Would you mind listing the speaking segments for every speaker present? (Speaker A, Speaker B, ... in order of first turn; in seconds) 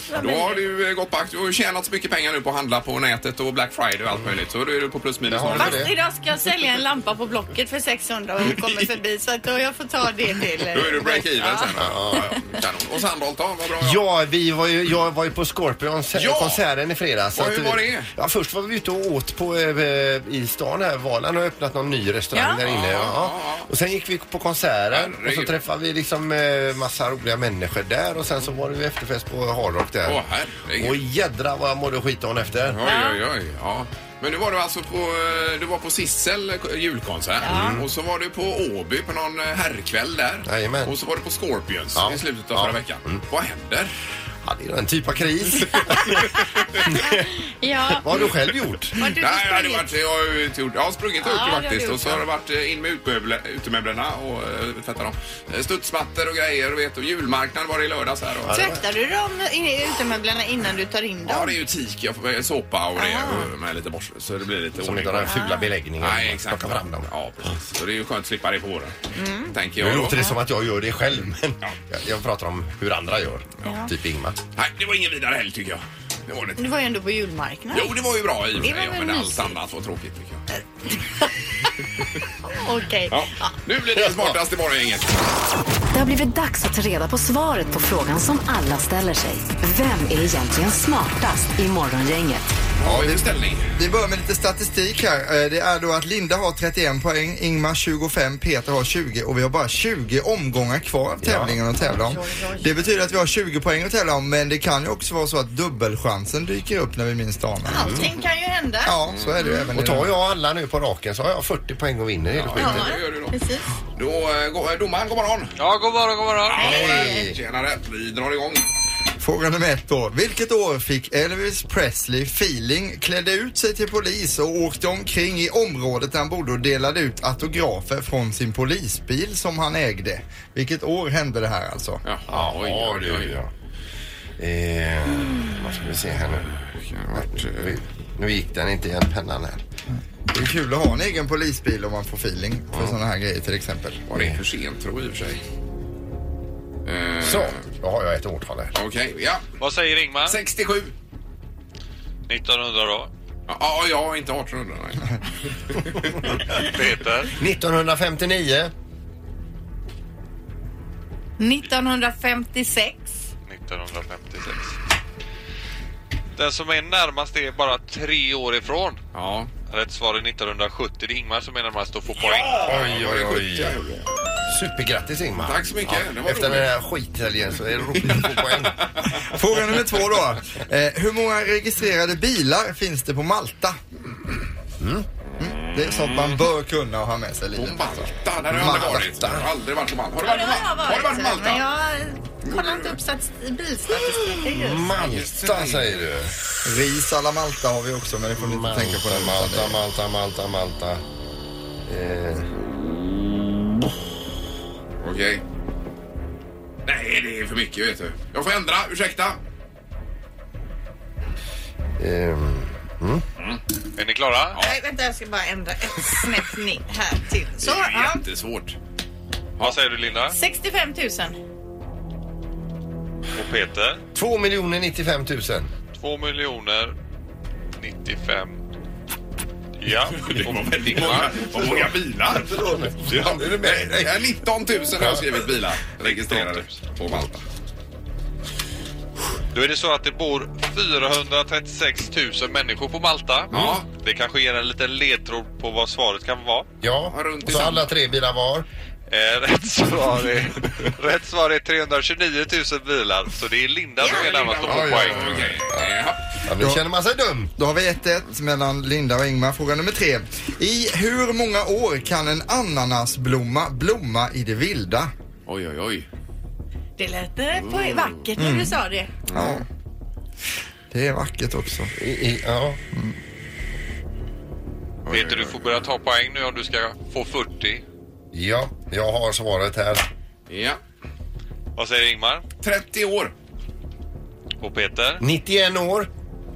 Speaker A: 0.1-0.6, 5.5-12.4, 22.3-22.6, 32.8-33.2, 37.4-37.8, 45.9-46.2, 46.9-48.1, 49.0-49.9, 51.2-52.2, 58.5-61.5, 63.0-63.4, 65.2-65.7, 69.2-69.6, 73.6-73.9, 76.6-77.9, 78.6-79.6, 80.9-81.7, 82.5-83.5, 101.8-102.9, 107.7-109.0, 112.6-113.7, 116.5-117.3, 161.4-163.3, 190.2-194.9, 214.6-218.2, 220.3-221.4, 267.0-269.1
Speaker B: 0.1-5.8, 10.7-14.0, 16.1-16.6, 17.4-18.1, 22.6-23.7, 24.9-25.6, 30.1-31.0, 32.7-43.9, 45.7-46.9, 48.1-48.4, 49.0-58.5, 61.2-65.3, 66.0-68.9, 69.5-70.2, 74.6-76.6, 77.7-80.4, 83.1-85.2, 92.8-93.7, 112.3-113.4, 113.9-115.5, 116.5-118.7, 132.1-133.4, 136.5-137.8, 144.1-145.4, 146.8-147.6, 148.7-149.5, 150.2-150.9, 153.5-155.2, 155.7-156.1, 169.1-169.5, 172.2-174.0, 175.4-176.7, 178.0-179.0, 185.4-186.5, 187.6-191.7, 192.5-193.0, 194.8-196.0, 202.8-203.2, 205.0-205.4, 206.9-209.4, 217.6-218.8, 230.1-237.4, 243.5-243.9, 247.1-247.9, 254.0-256.2, 265.5-266.1, 267.6-268.1, 269.3-269.6, 275.1-275.8, 280.5-280.8, 282.6-283.3
Speaker C: 5.3-5.9, 11.8-12.3, 13.8-30.2, 30.7-32.9, 37.5-37.9, 40.4-40.9, 41.9-43.2, 44.4-46.2, 46.9-47.2, 47.9-49.0, 58.4-58.8, 64.8-67.1, 69.8-74.4, 84.0-84.4, 101.2-101.6, 109.8-112.9, 116.6-117.4, 132.3-133.5, 134.4-136.5, 137.1-139.6, 147.2-148.8, 157.3-158.7, 172.6-173.8, 174.5-178.8, 184.8-185.1, 188.7-189.5, 194.3-196.4, 198.4-201.0, 201.9-202.5, 212.0-213.2, 224.2-225.7, 232.3-234.2, 235.0-235.5, 246.8-248.7, 254.6-257.5, 272.0-272.8, 278.3-280.1, 285.2-286.1
Speaker D: 85.9-92.5
Speaker E: 92.8-107.9, 108.9-110.2, 119.2-132.0, 140.3-144.1, 179.1-183.8, 185.4-188.0, 188.5-189.1, 196.7-199.8, 257.6-265.1, 268.4-268.8, 269.3-269.6, 270.9-271.9
Speaker F: 115.6-116.8, 149.6-150.4, 152.3-153.1, 156.6-157.4, 163.4-164.8, 166.4-169.0, 169.7-172.9, 214.0-214.6, 219.6-220.4, 223.3-224.0, 225.9-226.9, 227.8-228.6, 229.8-231.4, 236.0-236.7, 239.5-246.7, 249.1-255.2, 275.1-277.8, 281.8-282.4, 284.6-285.2